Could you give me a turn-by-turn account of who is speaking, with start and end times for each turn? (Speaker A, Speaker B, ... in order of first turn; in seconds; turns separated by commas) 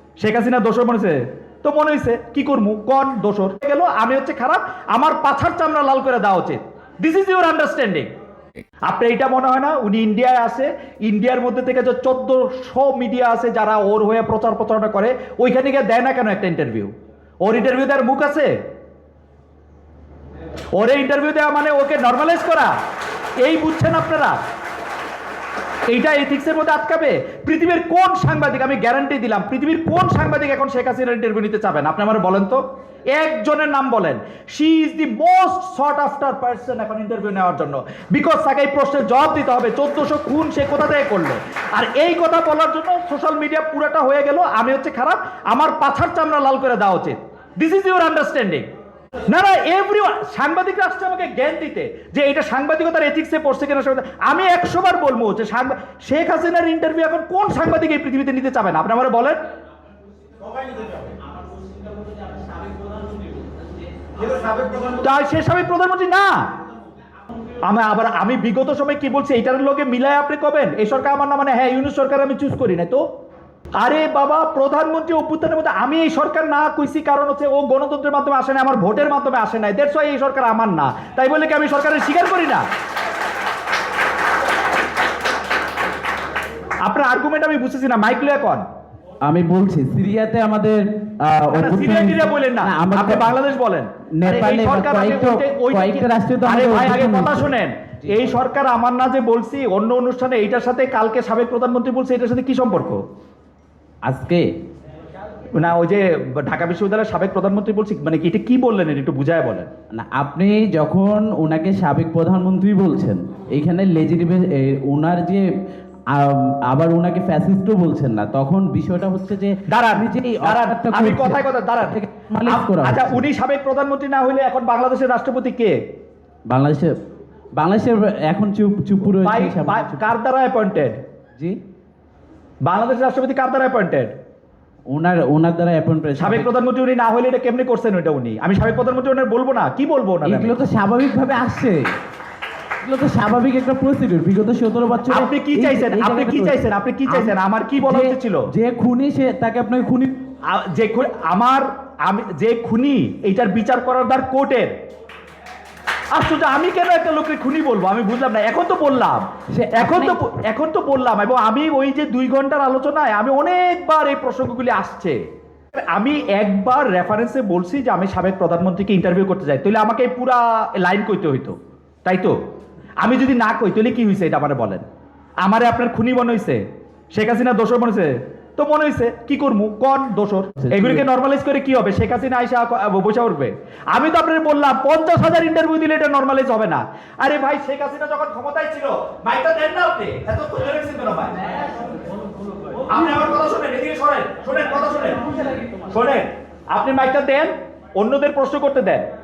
Speaker A: 0.2-8.1, Speaker A: 8.8-16.9, Speaker A: 17.4-18.5, Speaker A: 20.7-22.7, Speaker A: 23.4-24.4, Speaker A: 25.9-32.6, Speaker A: 33.1-48.6, Speaker A: 49.3-59.4, Speaker B: 61.7-63.2, Speaker A: 64.9-66.4, Speaker A: 67.6-73.0, Speaker A: 73.8-82.6, Speaker A: 86.8-88.6, Speaker B: 89.2-93.3, Speaker A: 91.5-103.0, Speaker B: 94.2-97.5, Speaker B: 104.0-104.5, Speaker A: 105.5-109.7, Speaker B: 109.9-115.5, Speaker B: 116.1-123.2, Speaker A: 119.7-125.8, Speaker B: 126.5-127.0, Speaker B: 127.6-130.1, Speaker A: 129.2-131.0, Speaker A: 132.6-134.1, Speaker B: 134.9-136.5, Speaker A: 136.2-140.6, Speaker B: 140.2-141.8, Speaker B: 142.8-150.1, Speaker A: 145.1-148.5, Speaker A: 150.5-154.7, Speaker A: 156.1-165.2, Speaker B: 159.5-160.2, Speaker A: 165.7-172.3, Speaker A: 173.0-174.8, Speaker A: 175.4-191.4, Speaker B: 180.6-181.0, Speaker A: 192.9-195.4, Speaker A: 195.9-199.1